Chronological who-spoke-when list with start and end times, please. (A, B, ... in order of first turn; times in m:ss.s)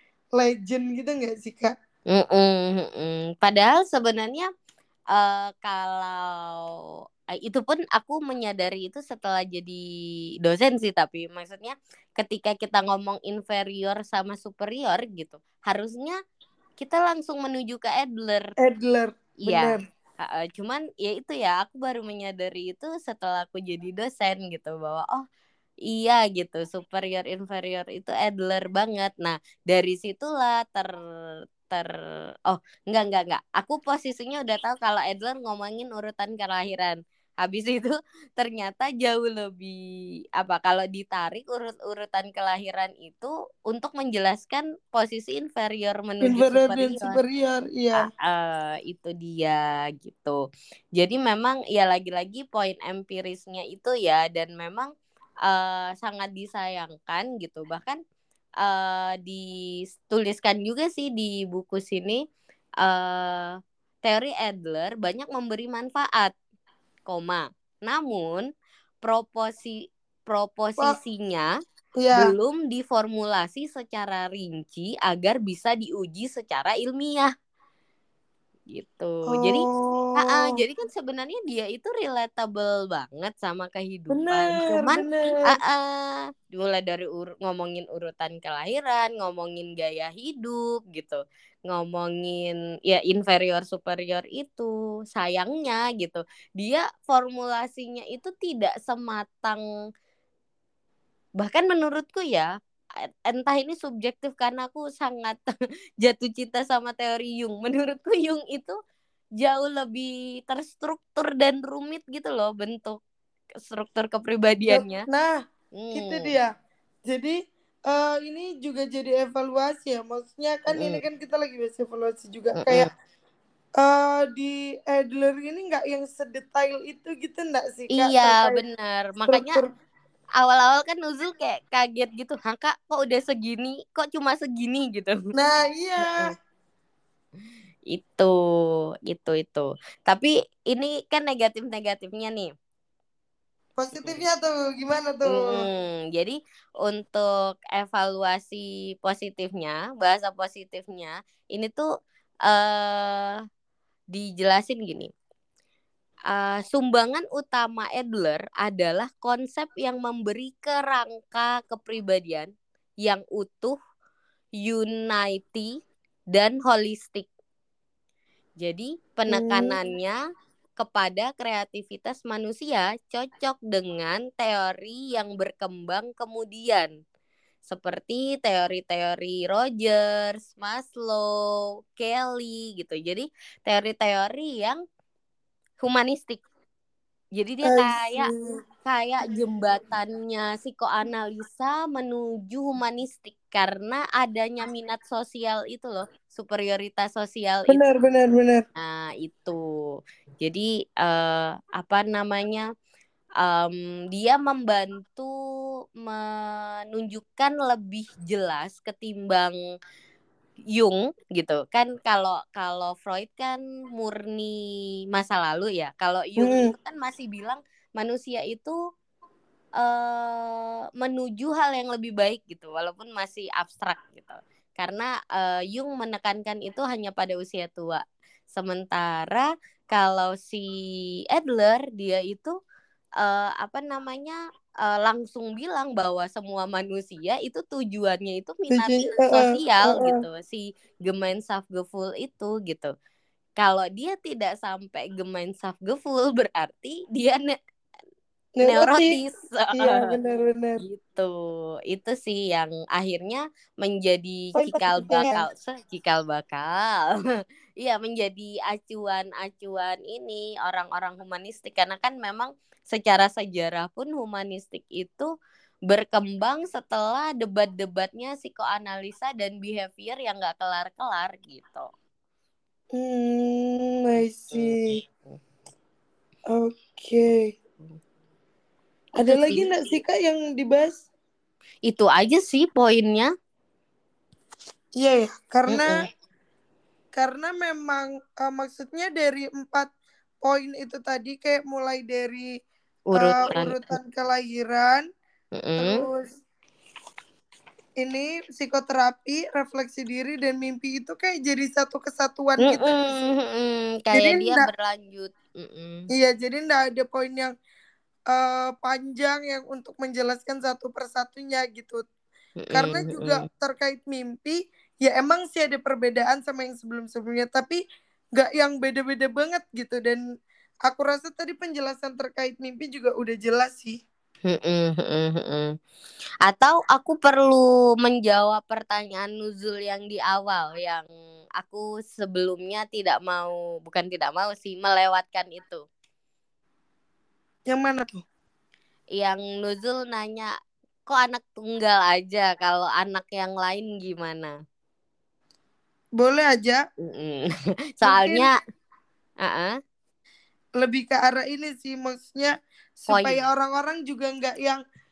0:00.4-0:01.7 A
0:02.1-0:04.5 B
0:05.1-0:06.8 B
0:07.3-0:09.8 B
0:10.4-0:16.2 B
0:16.8-0:18.5 B
0:18.6-0:19.8 A
0:19.4-0:25.2 B
0:25.9-0:30.9 B
0:31.7-0:32.0 B
0:32.5-0:39.8 B
0:40.4-0:47.2 B
0:46.2-0:48.1 A
0:48.0-0:50.4 B
0:51.0-0:54.9 B
0:55.5-0:58.0 B
0:58.6-0:59.5 B
1:00.1-1:02.2 B
1:02.8-1:06.4 B
1:07.1-1:08.5 B
1:09.0-1:11.5 B
1:12.0-1:12.3 A
1:12.2-1:17.3 B
1:18.7-1:19.7 B
1:19.3-1:20.6 A
1:20.2-1:39.6 B
1:24.1-1:25.5 A
1:41.4-1:42.5 B
1:43.0-1:45.4 B
1:46.0-1:48.8 B
1:49.4-1:53.0 B
1:53.7-1:55.1 B
1:54.7-1:55.4 A
1:55.8-1:56.3 B
1:55.9-1:56.5 A
1:57.1-2:02.9 A
2:00.7-2:01.0 B
2:02.6-2:02.9 B
2:03.8-2:08.6 A
2:07.9-2:09.6 B
2:09.3-2:09.7 A
2:10.4-2:15.2 B
2:15.4-2:16.3 A
2:16.0-2:16.4 B
2:17.9-2:18.4 B
2:19.1-2:22.5 B
2:23.8-2:25.6 A
2:25.3-2:31.9 B
2:32.5-2:33.4 B
2:34.1-2:35.1 B
2:36.3-2:42.5 B
2:43.0-2:43.8 B
2:44.6-2:45.7 B
2:46.3-2:47.3 B
2:48.6-2:50.2 B
2:49.3-2:49.8 A
2:50.8-2:56.9 B
2:57.7-3:04.8 B
3:05.8-3:06.4 B
3:07.4-3:17.8 B
3:07.6-3:08.5 A
3:17.7-3:18.6 A
3:18.8-3:19.7 B
3:20.4-3:22.7 B
3:23.4-3:25.3 B
3:26.0-3:29.6 B
3:30.7-3:38.8 B
3:36.4-3:36.7 A
3:39.8-3:50.8 B
3:51.3-3:52.6 B
3:53.2-4:02.9 B
3:58.7-4:00.2 A
4:03.6-4:07.6 B
4:08.6-4:09.2 A
4:08.6-4:10.0 B
4:09.8-4:10.8 A
4:10.8-4:17.2 B
4:14.6-4:15.4 A
4:17.8-4:25.3 B
4:25.9-4:31.9 B
4:32.9-4:35.0 A
4:34.5-4:34.8 B
4:36.5-4:37.6 A
4:39.2-4:41.0 A
4:39.2-4:39.7 B
4:41.9-4:43.3 B
4:45.0-4:46.0 A
4:45.7-4:46.1 B
4:47.2-4:49.9 A
4:50.4-4:52.5 A
4:53.1-4:54.0 B
4:53.1-4:55.1 A
4:55.6-4:56.1 B
4:55.8-4:56.4 A
4:58.0-5:03.3 A
5:02.6-5:06.1 B
5:04.1-5:04.7 A
5:06.1-5:07.5 A
5:08.3-5:12.0 A
5:12.6-5:13.4 B
5:12.7-5:17.8 A
5:18.4-5:20.2 A
5:20.9-5:24.0 A
5:24.5-5:25.7 B
5:26.4-5:31.0 B
5:31.6-5:35.8 B
5:37.7-5:38.2 A
5:39.2-5:40.5 B
5:41.1-5:44.5 B
5:46.2-5:46.8 A
5:47.0-5:48.6 B
5:48.0-5:48.5 A
5:49.4-5:49.7 B
5:50.8-5:54.8 A
5:53.1-5:53.4 B